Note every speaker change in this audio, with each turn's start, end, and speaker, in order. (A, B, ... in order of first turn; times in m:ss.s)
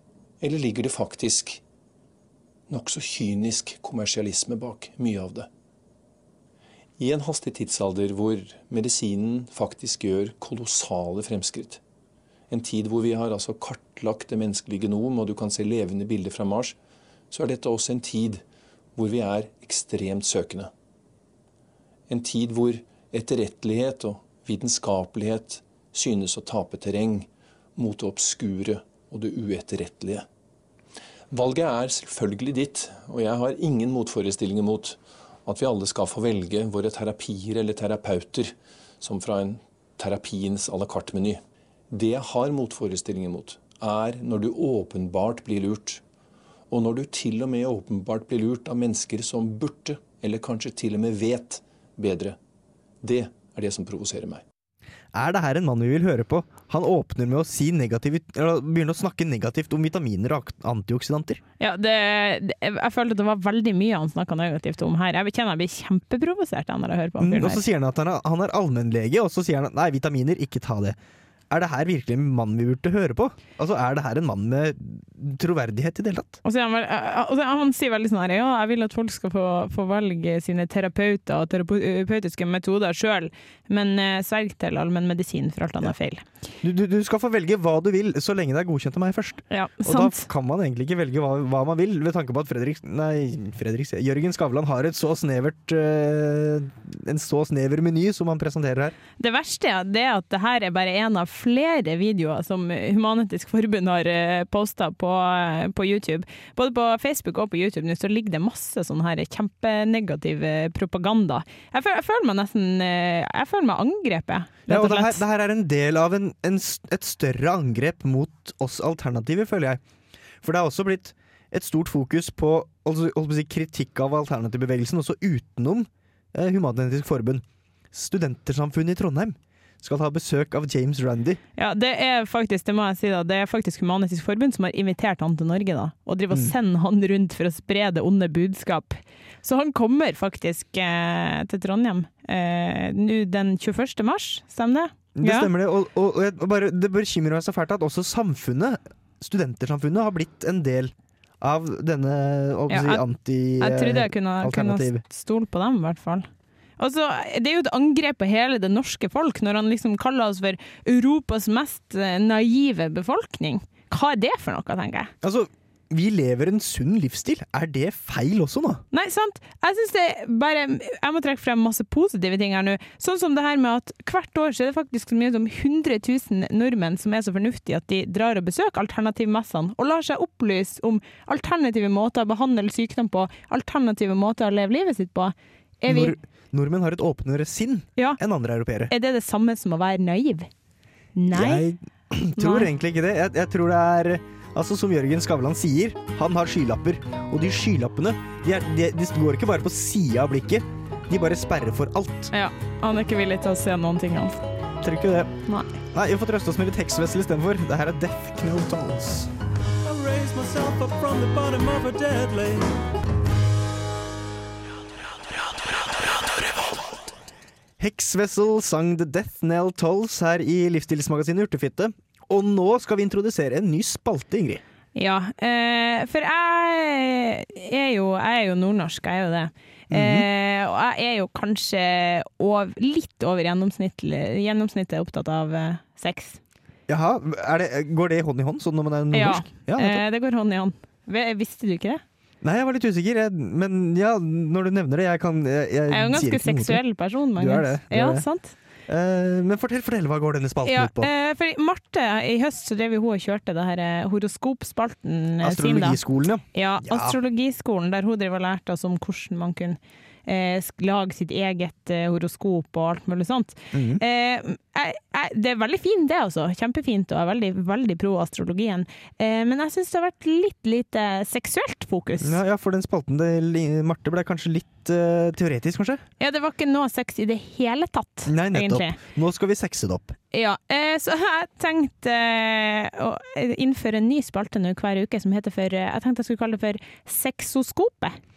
0:00.4-0:01.6 A
0:02.7-0:05.5 A
0:07.0-0:11.8 A
0:12.5-0:16.8 A
0:17.3-0:18.4 A
0:19.0-0:20.7 A
0:22.1-0:30.2 A
0:31.3-0:41.4 A
0:41.9-0:46.0 A
0:46.7-0:52.4 A
0:53.0-0:54.4 A
0:55.1-1:01.4 B
1:01.6-1:07.6 C
1:07.2-1:11.0 B
1:11.5-1:16.4 B
1:16.4-1:26.2 C
1:26.6-1:39.0 B
1:29.5-1:30.3 C
1:39.2-1:55.2 C
1:54.7-1:59.8 B
2:00.4-2:11.4 B
2:11.6-2:25.5 C
2:25.1-2:35.0 B
2:32.7-2:33.0 C
2:33.6-2:36.3 C
2:36.8-2:45.1 C
2:45.2-2:48.8 B
2:48.9-3:06.1 C
3:05.8-3:08.9 B
3:08.9-3:10.5 C
3:11.2-3:11.6 C
3:11.3-3:22.3 B
3:12.4-3:12.7 C
3:22.3-3:24.4 C
3:24.8-3:25.3 B
3:25.9-3:29.3 B
3:29.8-3:32.7 D
3:37.8-3:44.6 B
3:44.9-3:56.4 C
3:49.9-3:50.2 B
3:56.9-4:00.0 B
3:59.1-4:02.0 C
4:02.4-4:06.8 B
4:05.9-4:08.5 C
4:07.3-4:08.3 B
4:08.9-4:11.1 B
4:10.6-4:16.0 C
4:15.4-4:17.2 B
4:16.5-4:32.4 C
4:23.7-4:24.0 B
4:32.2-4:36.0 B
4:36.2-4:39.0 C
4:38.2-4:40.2 B
4:40.3-4:48.2 C